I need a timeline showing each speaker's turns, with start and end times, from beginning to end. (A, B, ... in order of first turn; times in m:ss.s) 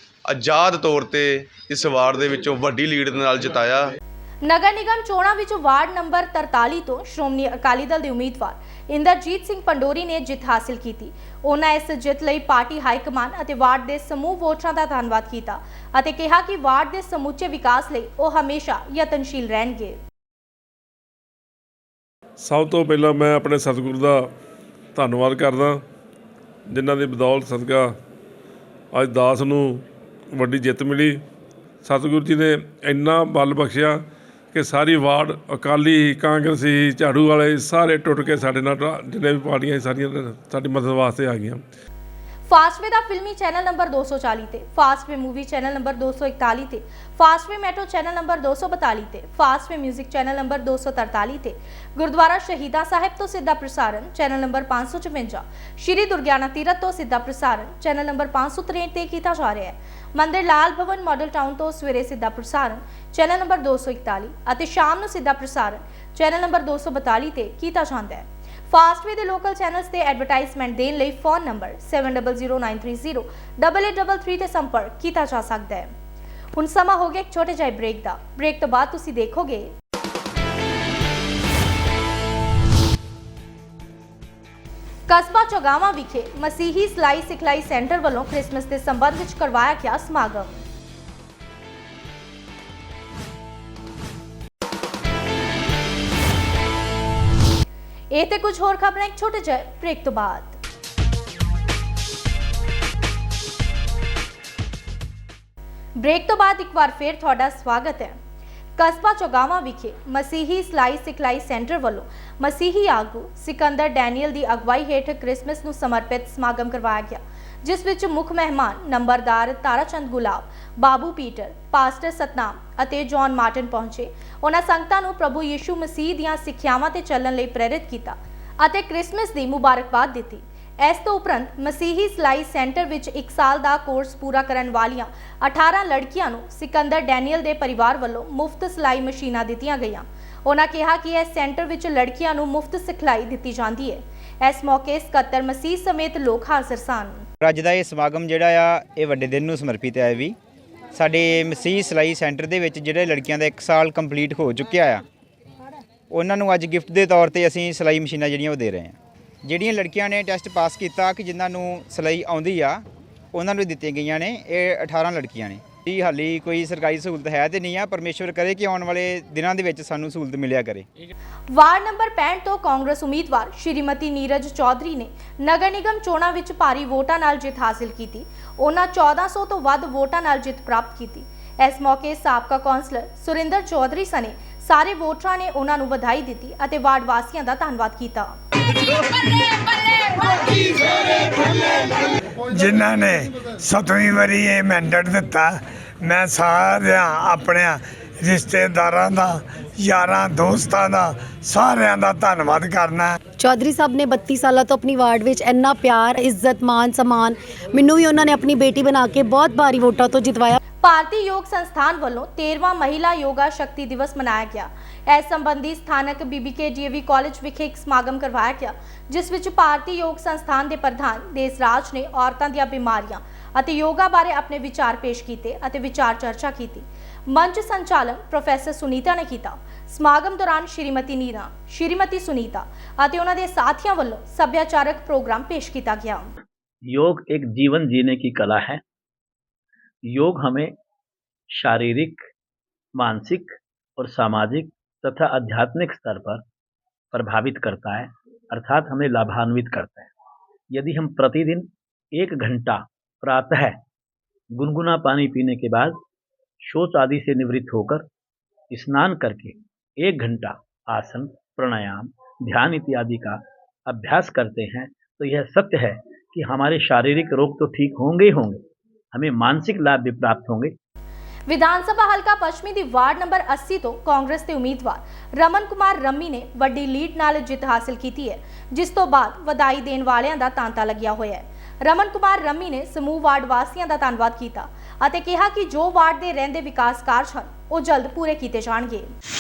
0:00.3-0:03.9 A
0:04.4-0:20.0 B
0:22.4-0:24.3 C
0:25.0-0:25.8 C
0:26.7-0:28.0 C
0:28.9-0:31.2 C
0:31.8-0:41.6 C
0:42.5-1:15.9 B
1:16.6-1:19.7 B
1:25.1-1:30.6 B
1:38.1-1:40.6 B
1:46.0-1:48.2 B
1:48.8-2:27.3 B
2:27.4-2:30.4 D
2:30.9-2:35.0 D
2:36.1-2:50.9 D
2:51.5-3:08.4 B
3:12.5-3:23.2 E
3:23.4-3:30.6 F
3:30.8-3:56.3 B
3:56.9-3:58.8 G
4:00.1-4:00.7 G
4:01.5-4:02.2 G
4:03.0-4:06.4 G
4:07.1-4:10.1 G
4:10.7-4:13.8 G
4:14.6-4:16.0 G
4:16.6-4:18.1 G
4:18.7-4:28.6 G
4:29.1-4:30.7 G
4:31.5-4:49.1 B